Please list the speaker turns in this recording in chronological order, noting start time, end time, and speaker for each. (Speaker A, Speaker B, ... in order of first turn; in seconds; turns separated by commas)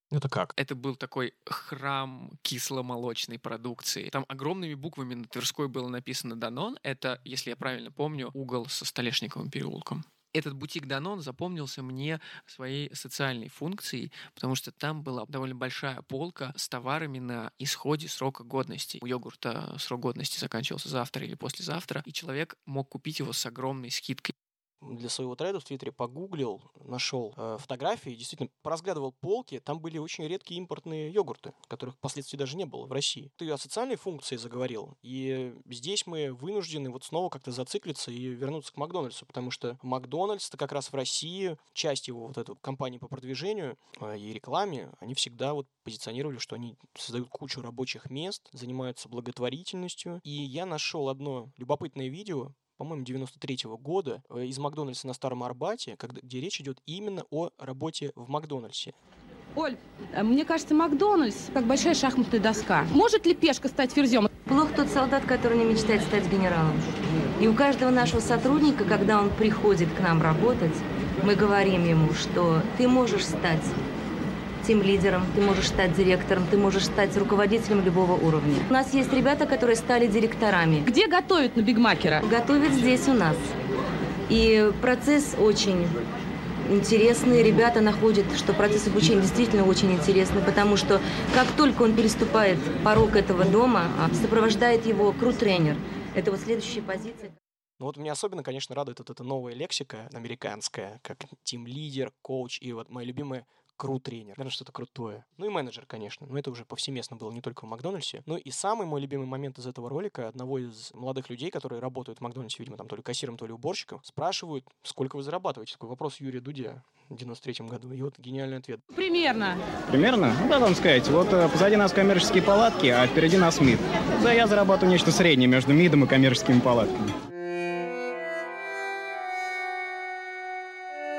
Speaker A: 0.1-0.5, Speaker B: 0.6-24.3, Speaker A: 24.8-58.9, Speaker C: 59.5-64.3, Speaker D: 64.5-66.8, Speaker D: 67.4-73.8, Speaker D: 74.6-80.9, Speaker C: 80.8-82.2, Speaker D: 82.2-83.5, Speaker D: 84.3-86.0, Speaker D: 86.6-97.3, Speaker A: 97.8-118.8, Speaker C: 118.9-119.6, Speaker E: 119.9-127.1